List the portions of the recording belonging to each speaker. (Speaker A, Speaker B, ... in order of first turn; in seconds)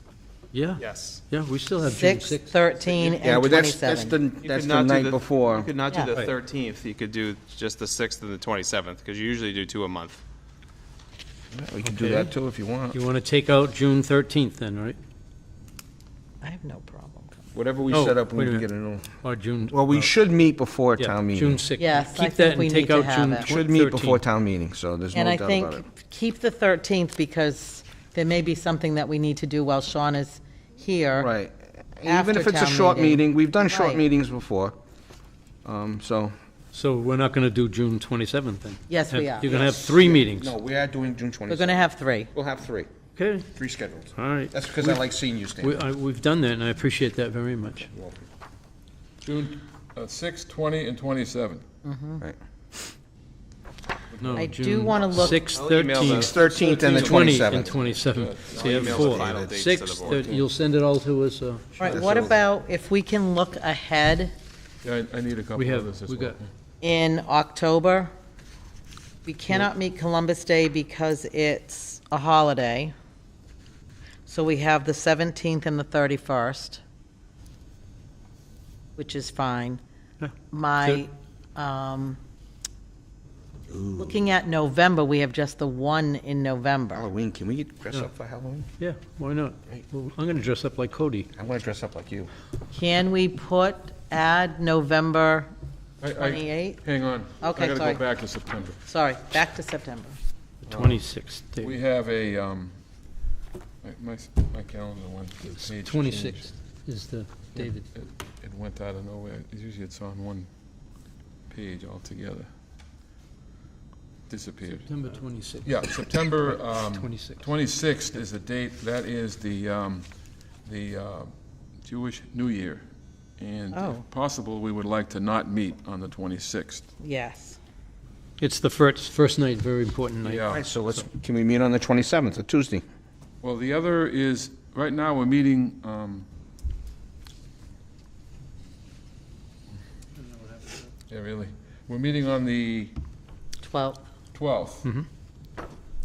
Speaker A: 0.5-2.5, 11.8-12.3, 12.9-15.0, 17.9-18.7, 19.2-20.1, 20.9-24.2, 36.7-40.5, 43.1-43.5, 44.1-47.9, 54.2-62.1, 65.5-66.4, 80.2-81.0, 88.8-91.3, 100.6-101.8, 105.4-107.8, 114.8-117.5, 128.4-131.0
Speaker B: 0.8-1.2, 4.4-10.2, 55.4-57.0, 58.5-60.2
Speaker C: 1.9-4.2, 16.4-17.5, 21.8-23.5, 25.1-31.3, 32.0-34.0, 38.9-39.5, 41.5-42.3, 51.8-52.2, 54.3-55.5, 61.8-64.3, 66.8-68.1, 69.2-72.9, 74.2-76.8, 79.0-79.8, 80.5-82.2, 84.0-87.0, 92.7-95.5, 96.1-96.8, 97.4-98.0, 98.8-100.2, 123.7-124.0, 127.0-127.6, 143.6-144.0
Speaker D: 3.2-5.7, 11.5-13.0, 17.5-19.1, 19.7-21.6, 23.4-25.8, 31.2-34.8, 35.6-36.3, 39.4-42.9, 43.5-45.8, 47.9-48.2, 56.0-57.8, 59.0-59.5, 61.9-62.4, 83.7-84.1, 86.9-88.7, 91.3-92.3, 130.5-132.8
Speaker E: 49.2-51.6, 56.5-59.2, 60.1-60.4, 64.8-66.5, 96.0-98.8, 100.7-101.0, 101.6-102.7, 103.8-106.5, 107.5-110.5, 111.5-112.5, 114.3-114.8, 115.6-120.1, 120.6-121.3, 121.8-122.8, 123.4-126.9, 130.2-130.6, 133.4-136.3, 141.1-142.9, 144.3-144.9